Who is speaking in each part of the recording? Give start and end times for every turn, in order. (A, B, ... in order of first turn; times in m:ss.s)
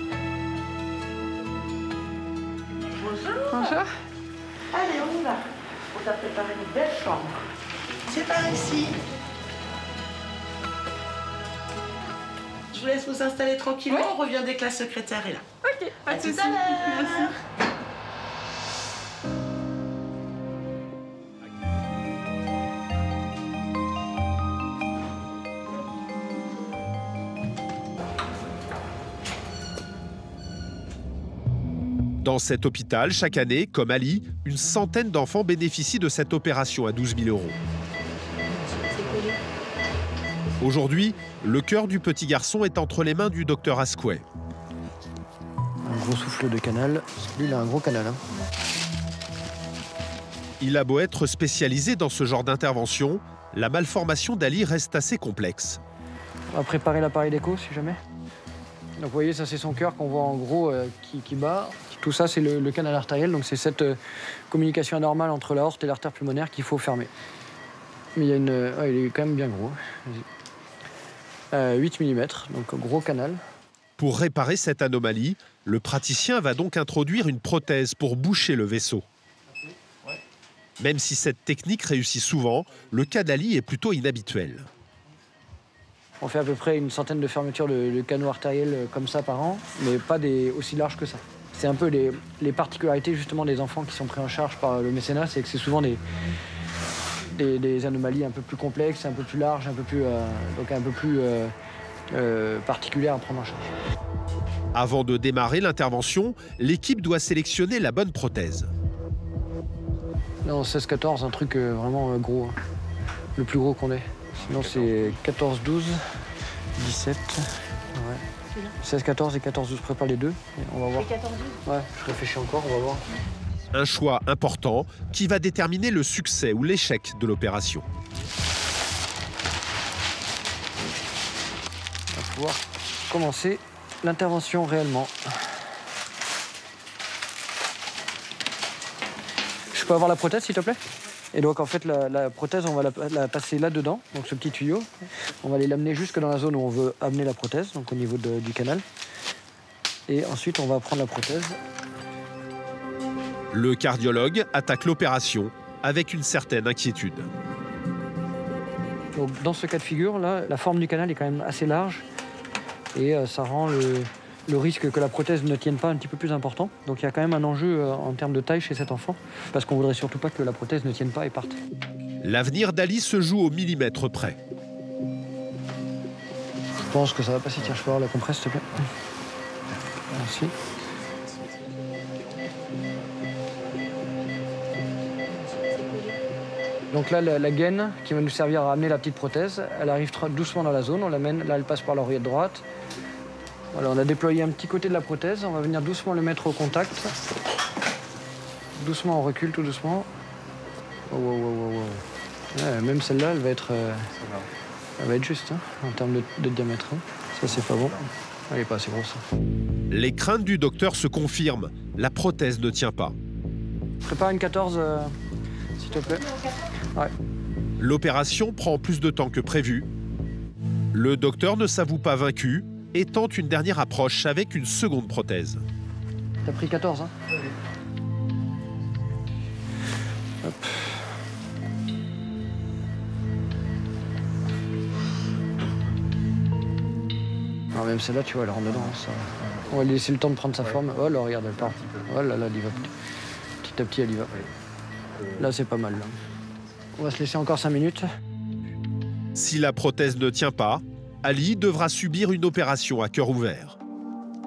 0:02.9-0:03.8 A
0:03.5-0:03.9 B
0:04.7-0:07.4 A
0:08.1-0:09.0 A
0:12.7-0:15.5 A
0:13.9-0:14.2 B
0:15.6-0:17.3 B
0:16.1-0:17.4 A
0:32.2-0:37.6 C
0:39.0-0:39.4 B
0:40.6-0:44.2 C
0:45.8-0:48.2 D
0:50.6-0:55.8 C
0:56.5-0:58.0 D
0:59.0-1:04.0 D
1:04.5-1:07.1 D
1:08.2-1:10.3 D
1:11.5-1:13.4 D
1:14.0-1:19.0 C
1:20.8-1:24.7 C
1:26.2-1:36.0 D
1:37.3-1:41.5 D
1:42.1-1:43.7 D
1:44.7-1:48.7 C
1:50.4-1:52.6 D
1:53.4-1:56.0 D
1:56.8-1:58.2 D
1:58.8-2:03.0 D
2:03.7-2:07.9 C
2:12.1-2:15.4 D
2:19.7-2:20.8 D
2:21.3-2:24.9 D
2:25.4-2:28.8 D
2:30.1-2:31.6 D
2:33.5-2:37.3 C
2:39.1-2:42.1 D
2:42.9-2:51.6 D
2:52.2-2:54.4 C
2:56.7-2:58.7 D
3:00.1-3:00.5 D
3:06.9-3:12.6 D
3:13.7-3:17.2 D
3:18.8-3:20.1 D
3:21.1-3:24.1 D
3:25.0-3:29.2 D
3:29.9-3:33.2 C
3:34.0-3:35.1 D
3:35.8-3:36.3 D
3:37.8-3:39.9 C
3:40.9-3:45.6 C
3:46.4-3:47.1 D
3:50.4-3:51.0 D
3:57.7-4:02.9 D
4:03.6-4:04.4 D
4:05.3-4:06.2 D
4:07.0-4:08.0 D
4:09.4-4:13.8 C